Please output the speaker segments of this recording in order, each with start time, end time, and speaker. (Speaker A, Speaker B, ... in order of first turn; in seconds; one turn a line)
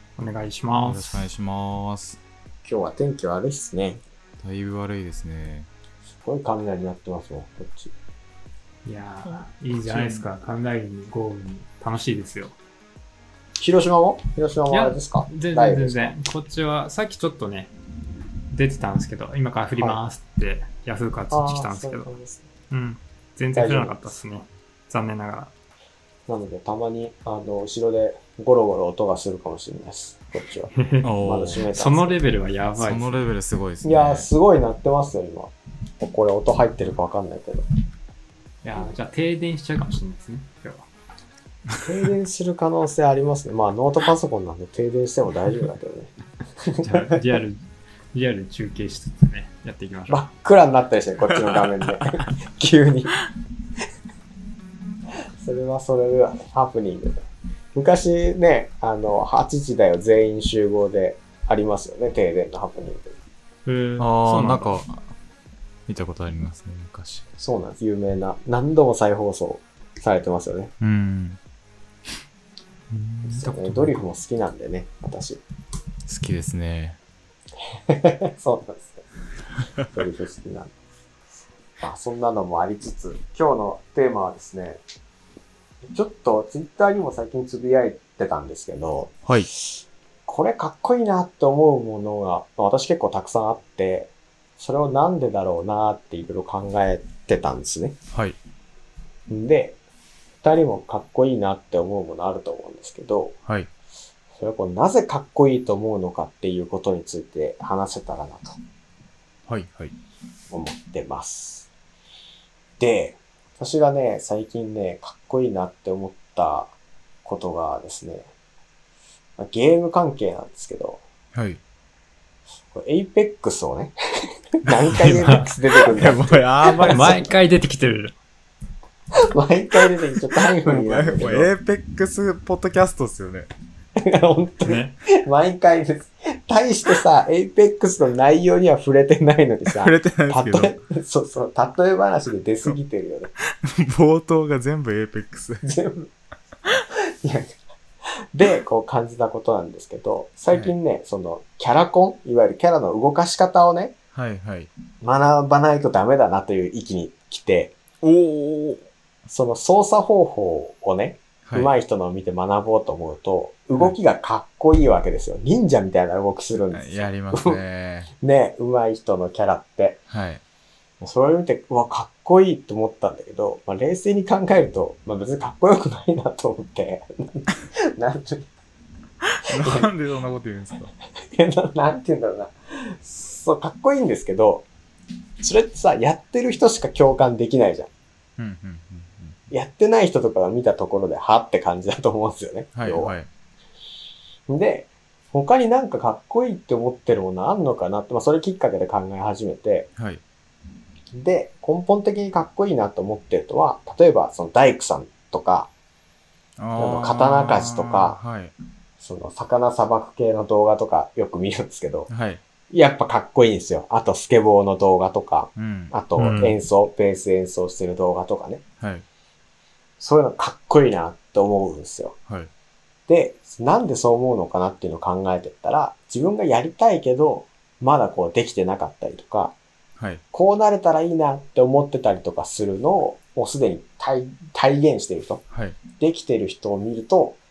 Speaker A: 0.2-1.2
Speaker B: 0.8-2.2
Speaker C: 2.6-4.0
Speaker B: 4.4-5.7
Speaker C: 6.2-7.9
Speaker A: 8.8-12.6
Speaker B: 9.8-10.3
Speaker C: 13.6-16.1
Speaker A: 14.7-17.7
Speaker A: 18.5-22.1
Speaker C: 21.3-22.5
Speaker A: 22.7-25.5
Speaker C: 23.5-24.1
Speaker C: 26.3-32.2
Speaker A: 30.7-33.3
Speaker B: 31.0-31.7
Speaker B: 32.8-34.3
Speaker C: 33.8-37.6
Speaker A: 38.6-40.9
Speaker C: 41.8-47.2
Speaker A: 46.8-47.6
Speaker A: 48.1-50.2
Speaker C: 50.1-53.2
Speaker C: 55.4-63.1
Speaker A: 63.7-64.8
Speaker B: 64.0-65.0
Speaker B: 65.9-67.3
Speaker C: 67.4-70.7
Speaker B: 70.8-71.4
Speaker A: 72.9-74.0
Speaker C: 73.2-75.4
Speaker B: 76.1-77.0
Speaker C: 77.7-79.0
Speaker C: 79.9-80.7
Speaker C: 81.8-84.8
Speaker C: 85.9-98.0
Speaker B: 98.1-98.4
Speaker C: 99.3-99.8
Speaker C: 100.4-103.4
Speaker C: 104.3-108.6
Speaker B: 109.5-110.0
Speaker C: 110.5-111.7
Speaker C: 112.8-118.3
Speaker C: 119.4-121.0
Speaker B: 121.3-121.6
Speaker C: 122.7-124.0
Speaker C: 124.6-127.3
Speaker A: 124.9-125.5
Speaker B: 125.9-127.3
Speaker A: 126.8-128.2
Speaker C: 129.3-131.5
Speaker B: 130.6-133.5
Speaker C: 134.0-143.3
Speaker A: 134.7-135.0
Speaker B: 139.7-140.8
Speaker B: 143.6-145.6
Speaker C: 145.6-146.1
Speaker C: 147.2-147.6
Speaker C: 148.3-154.0
Speaker B: 150.5-150.8
Speaker B: 154.1-154.7
Speaker C: 155.0-157.8
Speaker B: 158.0-158.8
Speaker C: 159.3-167.6
Speaker B: 161.4-161.7
Speaker B: 166.7-168.1
Speaker C: 168.2-170.0
Speaker B: 170.1-170.4
Speaker C: 171.0-178.5
Speaker B: 179.4-180.9
Speaker C: 179.5-179.9
Speaker C: 181.3-184.7
Speaker C: 185.4-187.9
Speaker B: 188.4-189.4
Speaker C: 189.5-193.1
Speaker B: 192.8-193.3
Speaker C: 194.5-199.9
Speaker B: 200.0-200.2
Speaker C: 201.1-205.7
Speaker B: 206.6-208.5
Speaker C: 206.8-208.2
Speaker C: 209.0-212.1
Speaker B: 212.1-212.4
Speaker C: 212.7-218.6
Speaker B: 215.6-215.9
Speaker A: 216.2-216.6
Speaker B: 218.8-219.1
Speaker C: 220.0-222.2
Speaker C: 223.1-229.6
Speaker B: 230.0-230.2
Speaker C: 230.3-235.4
Speaker B: 235.5-235.8
Speaker C: 236.0-237.4